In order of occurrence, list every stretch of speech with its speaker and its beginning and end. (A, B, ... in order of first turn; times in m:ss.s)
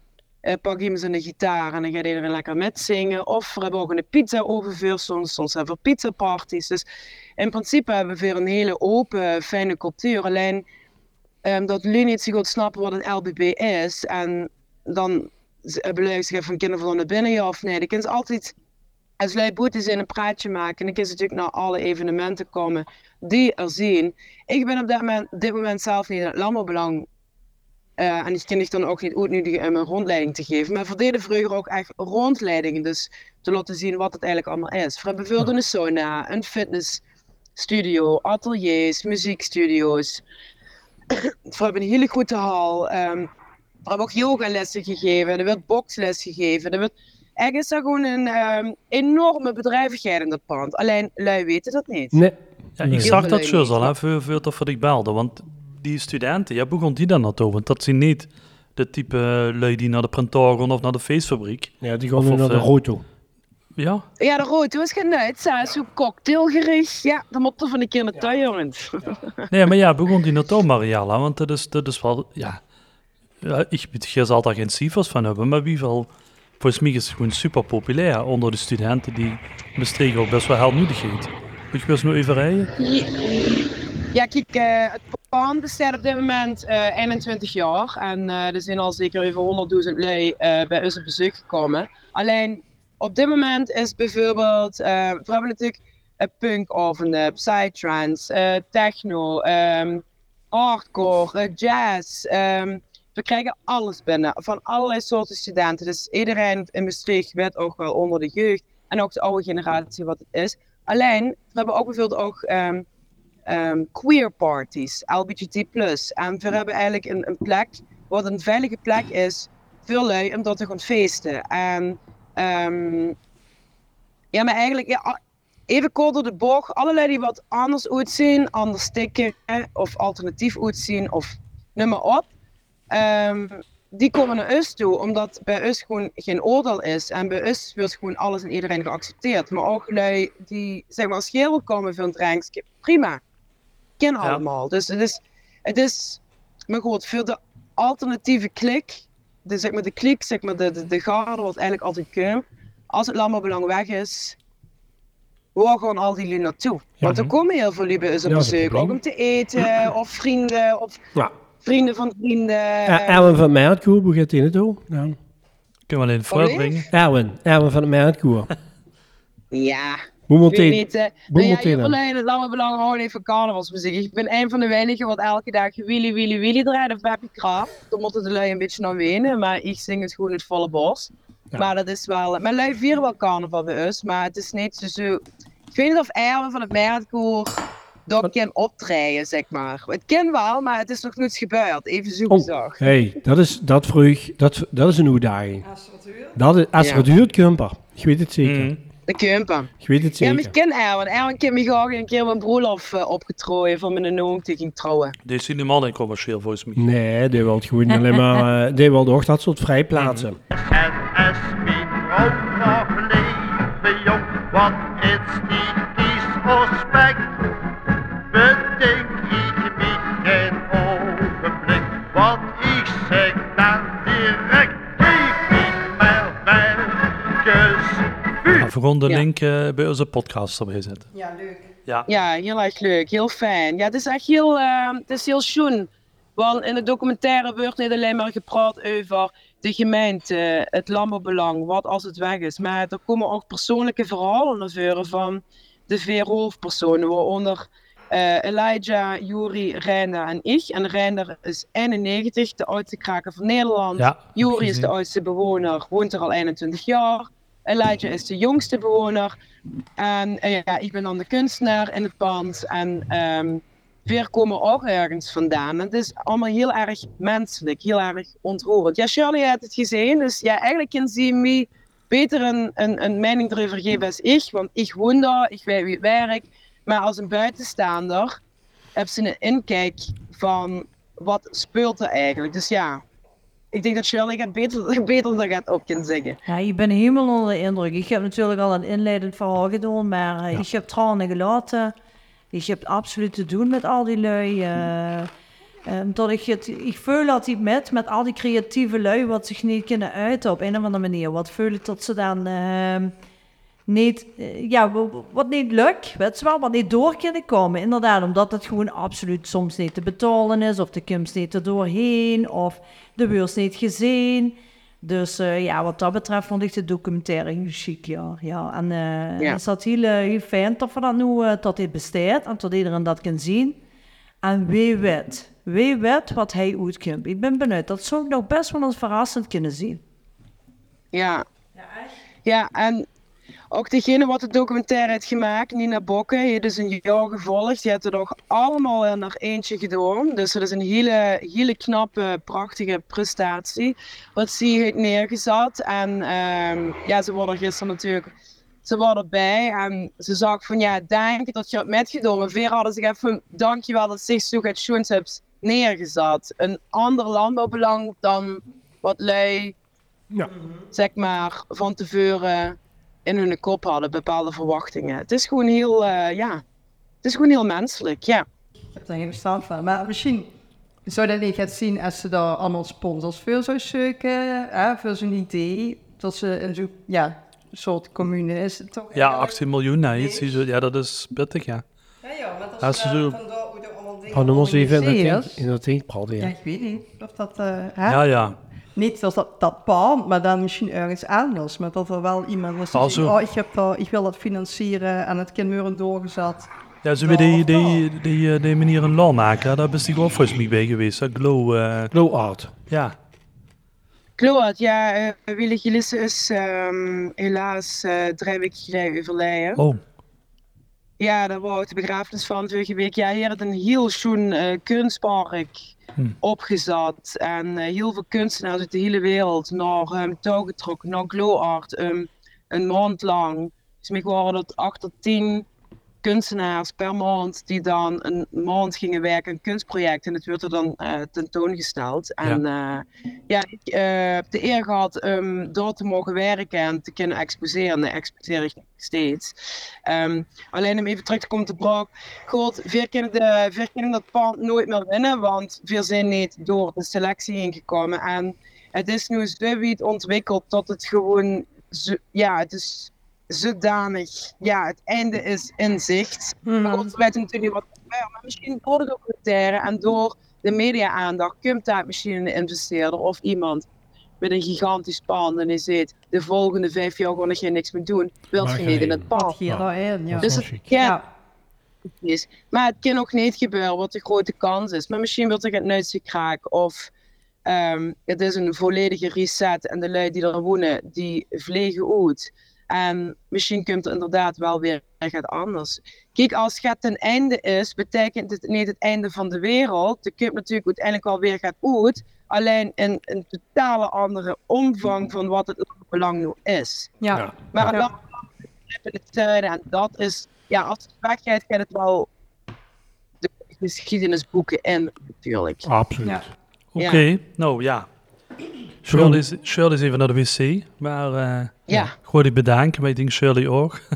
0:00.4-0:06.8 A
0:07.4-0:10.6 A
0:11.4-0:18.5 A
0:19.2-0:27.1 A
0:28.0-0:37.0 A
0:37.6-0:40.2 A
0:41.1-0:43.3 A
0:43.9-0:52.2 A
0:52.1-0:53.3 B
0:52.8-1:02.7 C
0:53.0-0:53.9 A
1:01.8-1:03.0 B
1:03.8-1:04.0 C
1:04.2-1:09.4 A
1:09.5-1:12.6 C
1:13.4-1:16.1 C
1:16.6-1:22.7 C
1:22.8-1:52.9 A
1:53.5-2:03.2 A
2:04.3-2:12.3 A
2:12.9-2:23.2 A
2:24.0-2:34.4 A
2:35.6-2:41.0 A
2:37.0-2:37.3 C
2:38.2-2:39.0 B
2:41.6-2:43.4 A
2:42.9-2:45.2 B
2:45.9-2:46.9 C
2:46.3-2:46.9 A
2:46.9-2:48.5 B
2:49.5-3:12.8 A
2:50.3-2:52.0 B
3:12.3-3:15.7 B
3:15.6-3:16.4 D
3:16.4-3:18.7 B
3:16.8-3:17.1 A
3:18.4-3:18.8 C
3:19.1-3:25.2 A
3:19.8-3:20.5 B
3:25.2-3:26.9 C
3:26.8-3:30.4 B
3:30.0-3:30.3 C
3:30.5-3:37.5 E
3:38.3-3:48.7 E
3:48.6-3:51.1 C
3:51.1-3:51.7 D
3:52.1-4:19.4 A
4:14.0-4:14.9 C
4:20.0-4:38.4 A
4:39.0-4:43.0 A
4:43.7-4:46.4 A
4:46.5-4:51.9 F
4:52.5-4:55.3 F
4:55.9-5:03.1 F
5:03.9-5:23.8 F
5:24.4-5:30.0 F
5:31.1-5:31.4 A
5:32.4-5:33.1 A
5:33.7-5:48.3 A
5:48.8-5:59.7 A
6:00.9-6:06.6 A
6:07.2-6:08.4 A
6:08.9-6:10.5 D
6:11.1-6:19.6 D
6:19.1-6:21.8 C
6:20.1-6:20.6 D
6:22.2-6:25.6 D
6:22.8-6:23.4 C
6:24.3-6:26.6 B
6:26.4-6:28.2 D
6:28.1-6:28.6 C
6:29.0-6:36.7 D
6:32.9-6:33.4 C
6:37.0-6:42.1 C
6:37.3-6:37.6 A
6:42.1-6:42.7 B
6:42.9-6:43.2 C
6:44.4-6:49.8 A
6:51.2-6:55.8 A
6:56.4-7:05.7 A
7:06.2-7:19.5 A
7:20.1-7:43.9 A
7:36.6-7:37.1 D
7:44.4-7:49.6 A
7:48.6-7:50.9 B
7:49.3-7:51.2 D
7:50.4-7:51.2 A
7:52.1-7:57.1 A
7:57.6-8:17.1 A
8:17.2-8:18.1 D
8:17.3-8:18.0 B
8:17.7-8:22.3 A
8:23.4-8:25.9 A
8:25.8-8:26.5 B
8:26.9-8:28.1 C
8:27.0-8:27.2 A
8:29.0-8:34.0 C
8:29.1-8:29.4 B
8:31.9-8:32.1 A